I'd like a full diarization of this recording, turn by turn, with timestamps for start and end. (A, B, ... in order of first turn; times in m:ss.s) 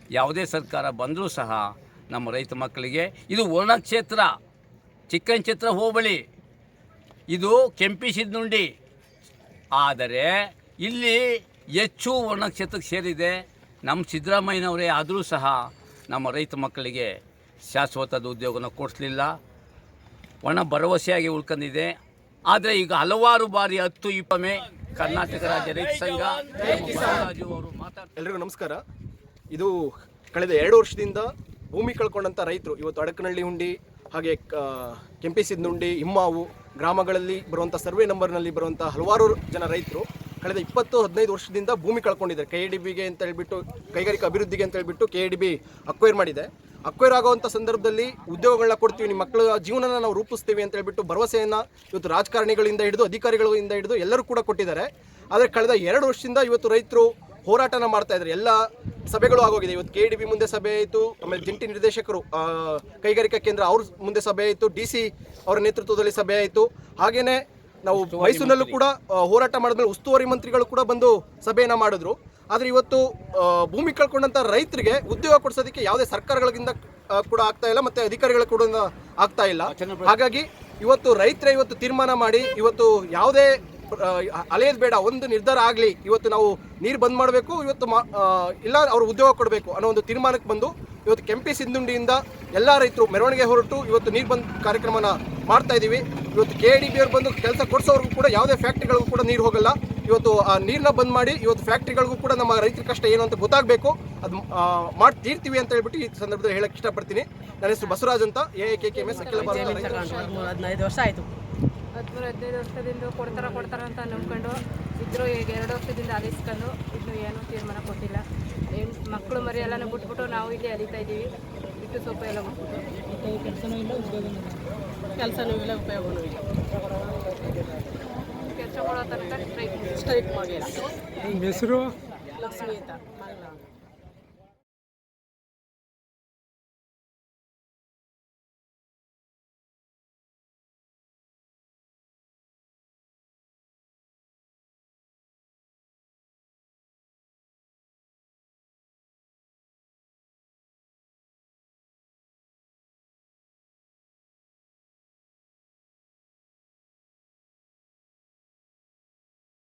0:00.1-0:04.3 A
0:05.1-0:06.2 A
0:07.3-0:08.7 A
0:09.8-0:11.2 A
0:11.8-0:15.6 A
0:16.1-0:17.1 A
0:17.7-0:19.3 A
0:20.4-0:21.9 A
0:22.5-0:28.1 A
0:28.2-0:28.8 B
0:29.5-1:50.2 B
1:07.9-1:08.8 A
1:19.6-1:20.2 A
1:48.9-1:50.4 C
1:49.2-1:51.3 D
1:52.0-1:58.2 C
1:58.7-2:02.6 C
2:03.5-2:04.0 D
2:05.2-2:06.4 D
2:08.5-2:10.0 C
2:09.9-2:10.8 D
2:12.4-2:13.6 D